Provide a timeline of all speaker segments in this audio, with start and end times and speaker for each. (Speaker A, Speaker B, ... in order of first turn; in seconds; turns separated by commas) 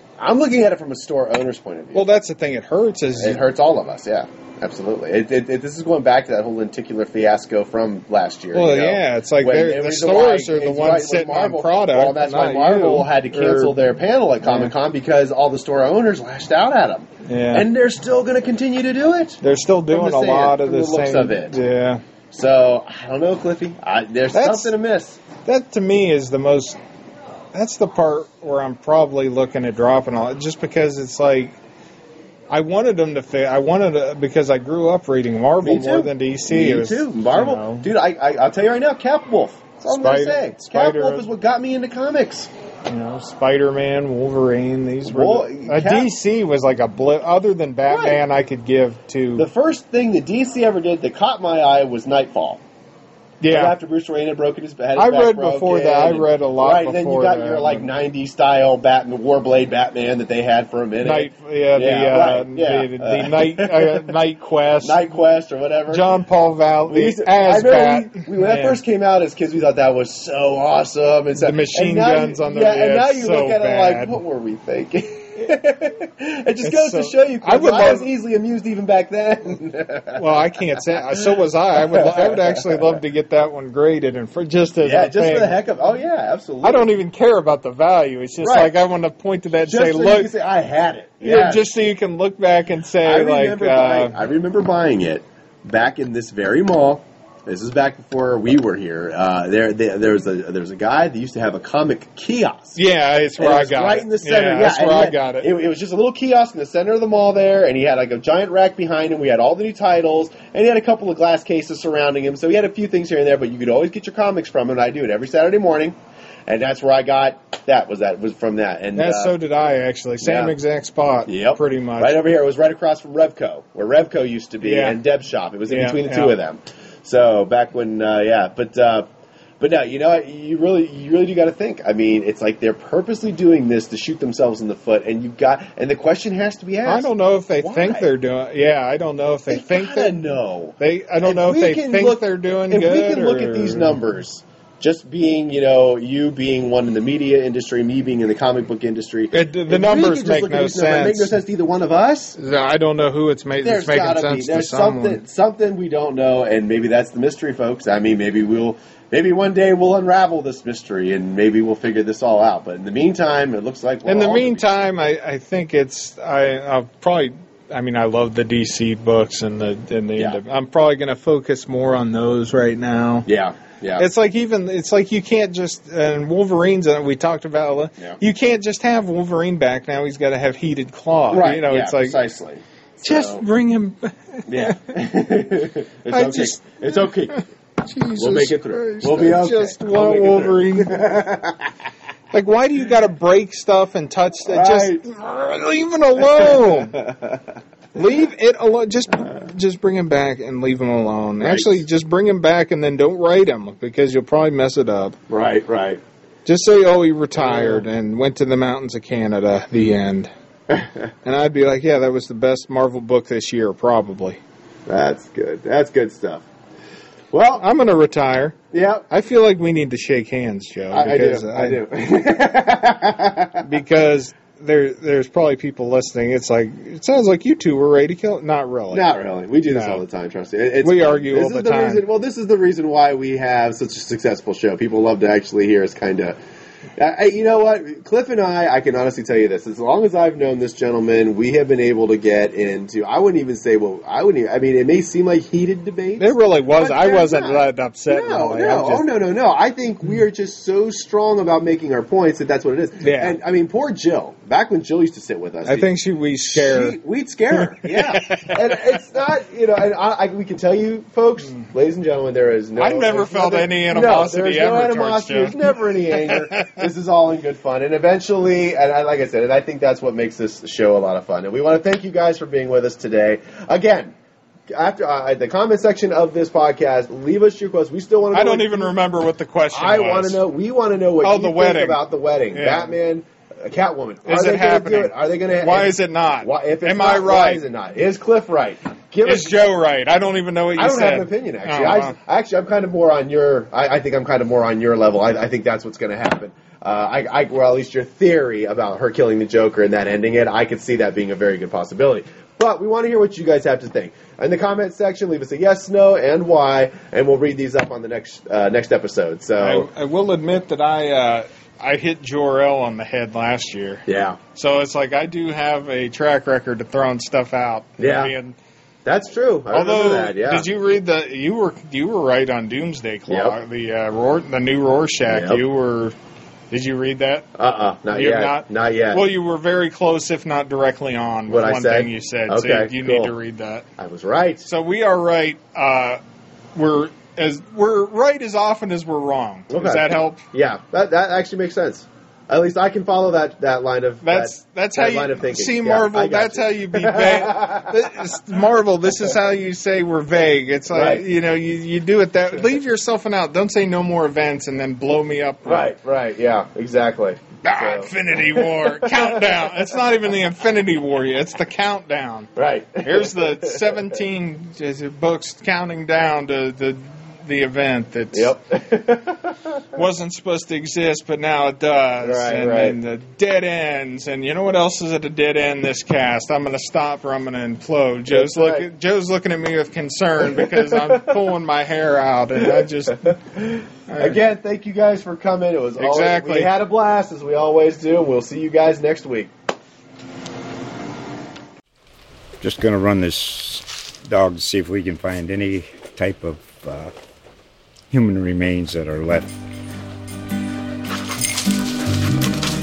Speaker A: 0.2-2.2, Speaker B: 1.9-3.4, Speaker A: 3.2-21.6, Speaker B: 8.5-13.8, Speaker B: 14.4-14.7, Speaker B: 17.3-17.7, Speaker B: 19.4-22.0, Speaker A: 22.3-25.2, Speaker B: 24.3-24.7, Speaker B: 25.5-26.8, Speaker B: 27.5-31.6, Speaker B: 32.5-37.9, Speaker A: 35.6-42.5, Speaker B: 39.9-41.3, Speaker B: 42.9-49.5, Speaker A: 45.0-46.1, Speaker A: 47.9-48.2, Speaker A: 49.4-52.6, Speaker B: 53.4-53.8, Speaker A: 53.5-64.2, Speaker B: 55.0-57.9, Speaker B: 61.0-65.2, Speaker A: 64.8-66.1, Speaker B: 65.9-68.8, Speaker A: 66.9-80.4, Speaker B: 71.4-74.2, Speaker B: 76.6-78.1, Speaker B: 80.2-85.6, Speaker A: 81.8-83.0, Speaker A: 84.8-86.9, Speaker B: 86.6-90.3, Speaker A: 88.4-88.8, Speaker A: 89.7-91.7, Speaker B: 91.2-94.2, Speaker A: 93.0-102.8, Speaker B: 102.8-105.5, Speaker A: 103.4-116.0, Speaker A: 116.5-119.3, Speaker B: 118.9-122.2, Speaker A: 120.2-120.5, Speaker A: 121.3-129.1, Speaker B: 124.6-125.0, Speaker B: 125.7-126.4, Speaker A: 129.6-137.1, Speaker B: 136.8-140.2, Speaker A: 137.6-138.1, Speaker A: 139.5-152.4, Speaker B: 140.8-144.0, Speaker B: 149.3-151.3, Speaker B: 152.4-155.2, Speaker A: 153.6-164.9, Speaker B: 164.1-173.3, Speaker A: 173.3-174.1, Speaker B: 174.0-182.2, Speaker A: 181.3-183.4, Speaker B: 183.0-184.9, Speaker A: 184.5-187.4, Speaker B: 186.1-191.1, Speaker A: 188.2-191.7, Speaker B: 192.3-197.0, Speaker A: 194.5-195.0, Speaker A: 196.2-197.4, Speaker B: 197.9-205.2, Speaker A: 201.4-201.8, Speaker A: 205.3-206.0, Speaker B: 206.5-210.3, Speaker A: 207.4-207.8, Speaker B: 211.2-214.4, Speaker A: 214.9-216.5, Speaker A: 217.3-217.6, Speaker B: 217.4-218.6, Speaker A: 218.7-219.1, Speaker B: 219.1-221.8, Speaker A: 220.9-223.7, Speaker B: 223.6-229.1, Speaker A: 228.9-236.4, Speaker B: 229.7-230.0, Speaker B: 230.8-232.0, Speaker A: 237.0-255.9, Speaker B: 246.2-249.1, Speaker B: 253.0-253.4, Speaker B: 255.7-257.0, Speaker A: 256.5-274.1, Speaker B: 257.5-258.7, Speaker B: 262.8-266.8, Speaker A: 274.7-278.9, Speaker B: 278.3-280.4, Speaker A: 279.7-289.6, Speaker B: 281.2-282.0, Speaker B: 282.5-283.0, Speaker B: 284.2-287.6, Speaker B: 289.2-292.2, Speaker A: 290.8-309.9, Speaker B: 309.6-318.6, Speaker A: 314.1-314.4, Speaker A: 318.0-318.4, Speaker A: 319.1-320.7, Speaker B: 319.7-326.1, Speaker A: 323.3-323.6, Speaker A: 325.3-325.6, Speaker B: 326.7-327.5, Speaker A: 327.6-329.3, Speaker B: 328.1-333.9, Speaker A: 331.5-333.3, Speaker A: 334.0-334.7, Speaker B: 334.6-336.2, Speaker B: 336.8-340.4, Speaker A: 339.7-348.2, Speaker B: 344.2-355.9, Speaker A: 350.9-351.2, Speaker A: 355.6-359.6, Speaker B: 357.6-362.5, Speaker A: 362.6-363.9, Speaker B: 363.0-368.5, Speaker A: 368.3-369.8, Speaker B: 369.9-383.4, Speaker A: 372.2-373.0, Speaker A: 378.3-378.9, Speaker A: 380.4-381.3, Speaker A: 382.6-389.5, Speaker B: 384.1-384.4, Speaker B: 386.0-386.7, Speaker C: 392.6-397.1, Speaker C: 398.1-399.6